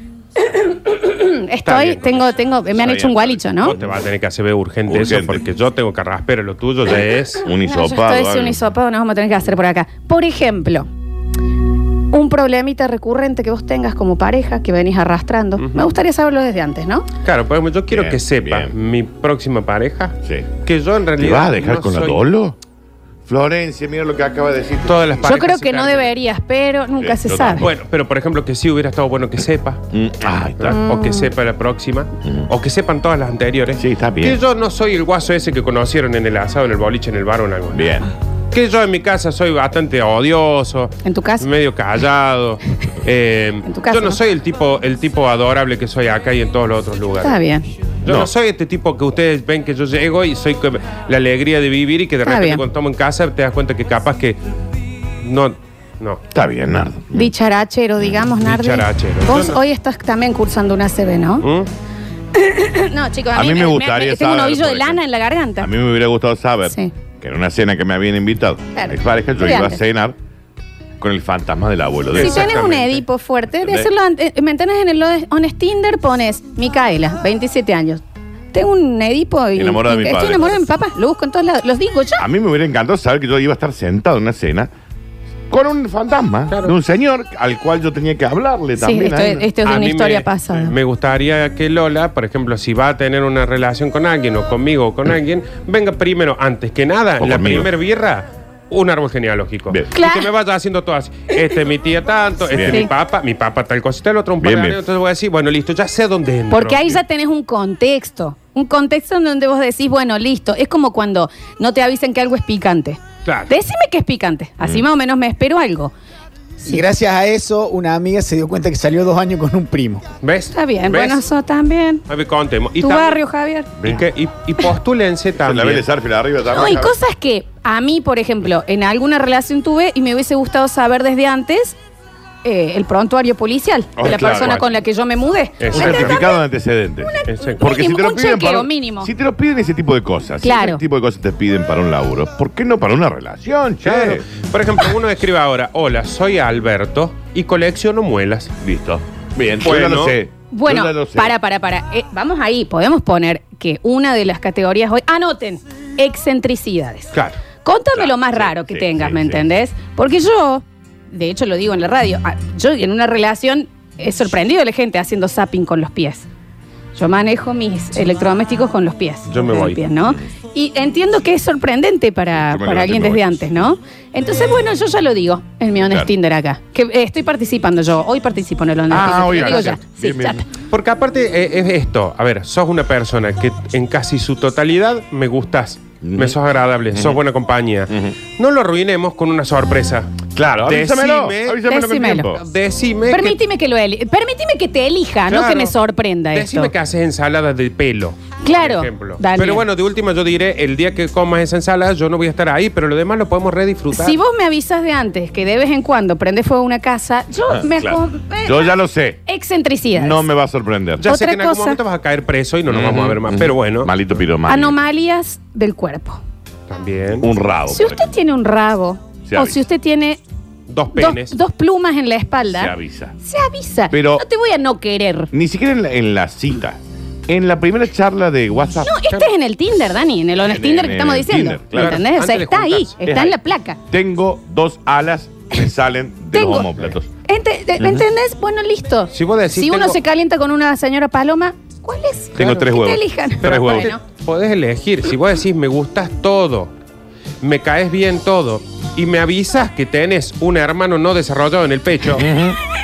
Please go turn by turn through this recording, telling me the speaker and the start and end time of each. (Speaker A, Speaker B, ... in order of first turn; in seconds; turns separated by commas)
Speaker A: 0.4-3.8, Speaker B: 1.6-2.4, Speaker C: 2.7-4.0, Speaker B: 3.6-7.4, Speaker C: 4.9-5.4, Speaker C: 6.8-8.7, Speaker A: 7.5-10.9, Speaker A: 12.1-17.1, Speaker B: 15.6-15.9, Speaker B: 17.2-22.2, Speaker C: 17.9-18.7, Speaker C: 20.2-20.5, Speaker C: 21.2-22.6, Speaker C: 23.3-25.1, Speaker B: 24.9-26.1, Speaker A: 25.2-27.7, Speaker C: 27.0-27.7, Speaker B: 27.6-29.8, Speaker C: 29.9-30.8, Speaker B: 30.6-38.0, Speaker A: 30.7-31.3, Speaker C: 33.8-34.4, Speaker C: 37.7-38.1, Speaker B: 38.5-47.4, Speaker A: 41.0-41.5, Speaker A: 43.7-44.2, Speaker A: 47.2-47.7, Speaker B: 48.0-54.4, Speaker C: 48.0-48.3, Speaker A: 52.2-52.6, Speaker B: 55.2-56.2, Speaker C: 56.3-57.3, Speaker A: 57.1-61.5, Speaker B: 58.4-59.6, Speaker B: 61.4-61.7, Speaker A: 62.3-65.7, Speaker C: 63.3-65.0, Speaker C: 65.6-70.2, Speaker A: 68.8-69.8, Speaker C: 71.0-72.8, Speaker B: 72.1-73.0, Speaker A: 72.2-78.0, Speaker C: 73.6-73.9, Speaker A: 78.5-82.2, Speaker C: 79.6-80.6, Speaker C: 82.2-84.7, Speaker C: 85.5-89.5, Speaker A: 88.8-90.7, Speaker B: 89.6-107.0, Speaker C: 97.2-97.7, Speaker A: 99.9-100.3, Speaker C: 102.5-102.8, Speaker C: 104.4-104.8, Speaker A: 106.5-115.9, Speaker B: 113.2-113.5, Speaker D: 116.7-120.1, Speaker B: 120.2-121.3, Speaker A: 120.5-122.0, Speaker B: 122.1-123.2, Speaker A: 122.8-123.7, Speaker C: 123.8-124.1, Speaker B: 123.8-125.9, Speaker C: 125.4-126.9, Speaker A: 126.5-131.8, Speaker A: 132.4-136.4, Speaker C: 134.0-134.6, Speaker B: 134.2-134.6, Speaker B: 135.6-136.2, Speaker C: 135.7-144.2, Speaker A: 137.0-139.1, Speaker B: 137.3-137.6, Speaker A: 140.4-140.8, Speaker B: 143.8-148.5, Speaker C: 148.6-151.3, Speaker B: 149.6-150.2, Speaker A: 150.5-166.3, Speaker C: 157.9-159.5, Speaker A: 166.9-180.4, Speaker B: 169.3-169.8, Speaker C: 172.4-173.7, Speaker C: 175.8-176.1, Speaker C: 178.9-180.4, Speaker B: 179.0-179.8, Speaker B: 180.7-193.4, Speaker C: 186.0-186.4, Speaker C: 186.9-187.2, Speaker C: 187.9-188.2, Speaker C: 190.4-192.4, Speaker A: 191.7-192.3, Speaker A: 193.1-196.7, Speaker B: 195.3-195.8, Speaker B: 196.3-204.2, Speaker A: 198.4-199.7, Speaker A: 203.9-210.2, Speaker C: 207.5-209.2, Speaker C: 209.9-211.1, Speaker B: 211.0-213.9, Speaker A: 211.1-211.8, Speaker C: 212.7-214.8, Speaker A: 214.5-216.2, Speaker B: 216.7-217.3, Speaker C: 217.2-218.1, Speaker A: 217.7-220.2, Speaker C: 219.2-219.6, Speaker B: 220.7-221.4, Speaker A: 220.9-225.3, Speaker C: 222.5-223.2, Speaker C: 223.9-224.2, Speaker C: 225.3-228.9, Speaker A: 228.8-233.8, Speaker C: 230.4-232.1, Speaker B: 231.7-233.0, Speaker C: 233.0-237.1, Speaker A: 236.3-236.7, Speaker A: 237.2-244.0, Speaker C: 237.8-238.1, Speaker B: 239.1-240.0, Speaker C: 242.3-243.9, Speaker B: 243.4-246.7, Speaker B: 247.4-252.3, Speaker C: 252.1-252.6